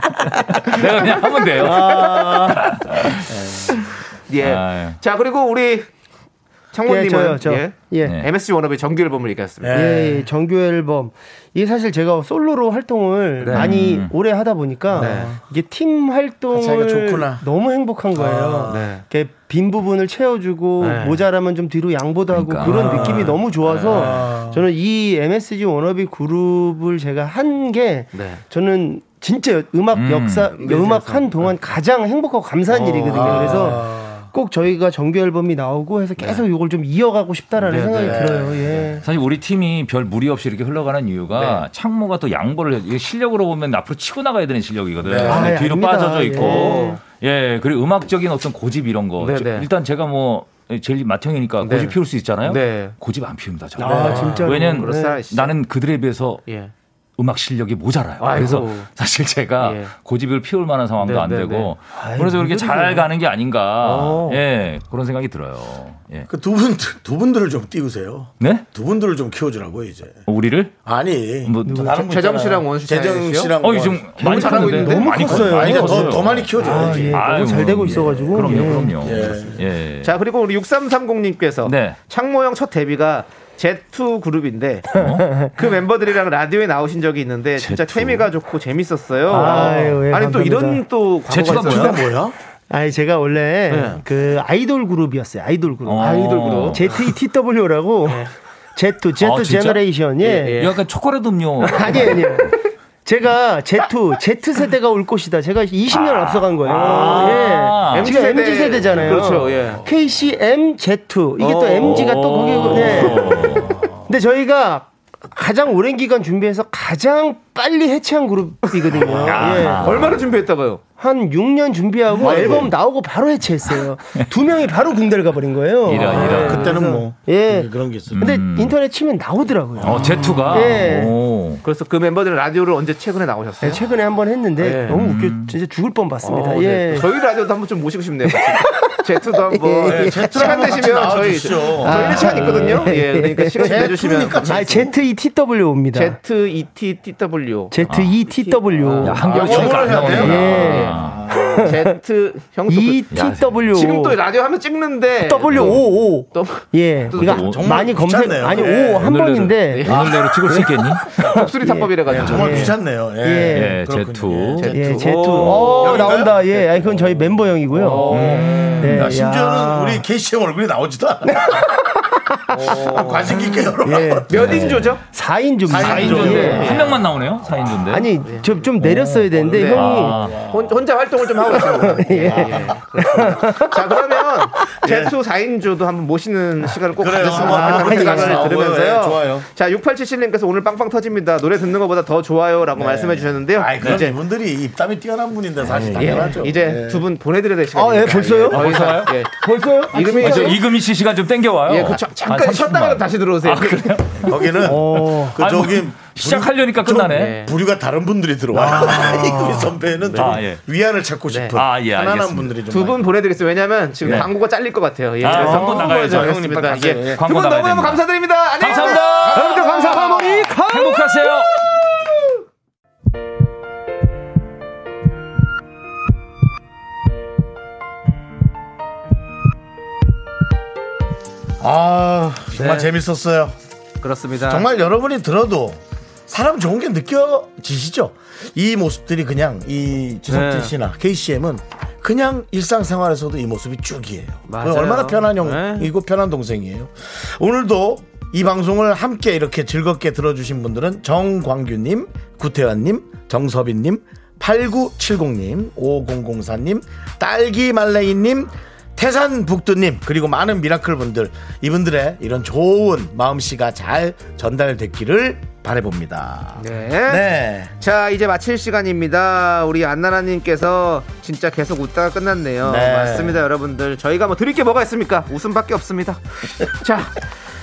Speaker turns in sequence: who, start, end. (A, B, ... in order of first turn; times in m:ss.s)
0:00.4-0:03.3 A
0:01.6-0:02.7 B
0:03.3-0:03.8 C
0:04.3-0:05.9 D
0:04.4-0:05.0 A
0:06.7-0:09.8 D
0:06.9-0:08.2 B
0:08.0-0:08.3 A
0:09.6-0:10.3 C
0:09.7-0:39.0 B
0:13.4-0:13.7 D
0:13.5-0:14.1 A
0:15.0-0:15.3 C
0:15.0-0:15.3 D
0:16.5-0:17.4 C
0:18.2-0:18.8 C
0:18.7-0:19.0 D
0:20.8-0:21.2 D
0:22.3-0:23.3 A
0:22.6-0:23.4 C
0:23.6-0:24.1 D
0:23.9-0:24.6 C
0:28.1-0:28.4 D
0:29.9-0:30.6 A
0:30.5-0:31.5 D
0:32.7-0:33.8 D
0:33.1-0:34.3 C
0:37.6-0:38.4 D
0:38.0-0:38.9 C
0:39.0-0:56.4 A
0:41.3-0:41.6 D
0:45.0-0:45.6 C
0:45.2-0:47.0 B
0:46.4-0:47.0 D
0:49.2-0:49.7 D
0:51.6-0:53.0 D
0:53.8-0:55.2 B
0:53.8-0:55.5 D
0:57.2-1:06.3 A
0:58.2-0:58.9 D
0:59.6-0:59.9 D
1:01.0-1:01.7 D
1:02.0-1:03.1 B
1:03.8-1:04.4 D
1:06.3-1:10.2 C
1:08.4-1:08.7 A
1:10.3-1:10.8 A
1:10.8-1:14.2 C
1:11.4-1:11.9 A
1:11.6-1:12.0 B
1:12.0-1:13.5 D
1:13.6-1:20.1 A
1:14.2-1:19.0 B
1:14.2-1:15.1 D
1:15.1-1:19.6 C
1:20.0-1:24.9 D
1:21.6-1:22.0 A
1:24.9-1:25.2 A
1:25.0-1:25.5 B
1:25.4-1:32.0 D
1:27.6-1:28.3 A
1:29.3-1:30.8 B
1:31.3-1:32.1 A
1:31.5-1:32.4 C
1:32.7-1:40.7 B
1:33.7-1:34.0 D
1:35.9-1:37.2 A
1:36.0-1:37.0 D
1:38.1-1:38.3 D
1:39.2-1:39.8 A
1:40.2-1:40.7 D
1:40.6-1:42.3 A
1:41.6-1:42.0 D
1:41.6-2:00.1 B
1:45.9-1:48.4 A
1:46.7-1:49.8 D
1:51.4-1:53.4 D
1:51.8-1:53.9 A
1:58.7-2:00.8 D
1:59.2-2:00.2 A
2:01.0-2:11.2 B
2:02.2-2:02.7 C
2:05.9-2:06.8 A
2:06.1-2:08.2 C
2:08.1-2:08.8 A
2:09.8-2:11.6 A
2:09.8-2:10.3 C
2:10.3-2:10.6 D
2:11.6-2:13.8 D
2:13.6-2:17.1 B
2:14.6-2:15.0 D
2:14.9-2:15.6 A
2:16.2-2:24.8 D
2:18.4-2:20.9 B
2:19.8-2:22.9 C
2:21.7-2:26.2 B
2:23.6-2:24.9 C
2:25.9-2:33.0 D
2:27.7-2:31.9 B
2:27.9-2:28.2 A
2:29.0-2:31.4 A
2:29.3-2:31.6 C
2:32.7-2:34.2 B
2:33.1-2:33.6 A
2:33.7-2:37.4 D
2:35.2-2:43.9 B
2:35.5-2:35.8 A
2:37.2-2:37.9 A
2:37.2-2:39.2 C
2:38.6-2:40.2 D
2:39.8-2:41.2 A
2:41.2-2:42.7 D
2:42.1-2:46.4 C
2:42.1-2:42.6 A
2:43.5-2:44.9 A
2:44.6-2:46.9 D
2:44.7-2:50.0 B
2:47.7-2:48.9 D
2:47.8-2:51.7 C
2:48.1-2:49.1 A
2:51.3-2:54.6 B
2:52.5-2:55.0 C
2:52.7-2:53.3 D
2:54.3-2:55.0 D
2:55.1-2:56.9 B
2:55.7-2:56.6 C
2:55.7-2:58.1 A
2:55.9-2:57.0 D
2:57.9-3:00.2 B
2:58.2-2:58.6 D
2:58.8-3:00.8 C
2:59.5-3:14.2 D
2:59.7-3:00.4 A
3:01.5-3:04.2 B
3:02.1-3:03.3 C
3:04.8-3:05.1 C
3:07.0-3:09.5 C
3:07.3-3:08.6 B
3:12.8-3:17.0 C
3:15.8-3:16.2 B
3:15.9-3:19.3 D
3:17.8-3:20.6 B
3:18.5-3:19.2 A
3:19.9-3:20.6 D
3:20.1-3:27.4 A
3:21.7-3:24.0 D
3:24.2-3:33.1 C
3:24.6-3:25.4 B
3:27.1-3:27.5 D
3:28.5-3:29.7 B
3:30.1-3:30.4 D
3:30.2-3:30.6 A
3:31.3-3:31.6 D
3:31.5-3:32.5 A
3:32.7-3:40.5 D
3:34.0-3:34.3 A
3:35.2-3:38.0 A
3:35.3-3:37.2 C
3:35.4-3:35.7 B
3:38.6-3:41.5 A
3:38.8-3:41.6 B
3:51.6-3:53.6 C
3:52.5-3:52.9 D
3:54.0-3:54.7 D
3:54.5-4:27.7 C
4:00.3-4:00.7 D
4:04.5-4:05.9 D
4:26.6-4:27.2 D
4:27.8-4:37.2 D
4:32.6-4:33.4 C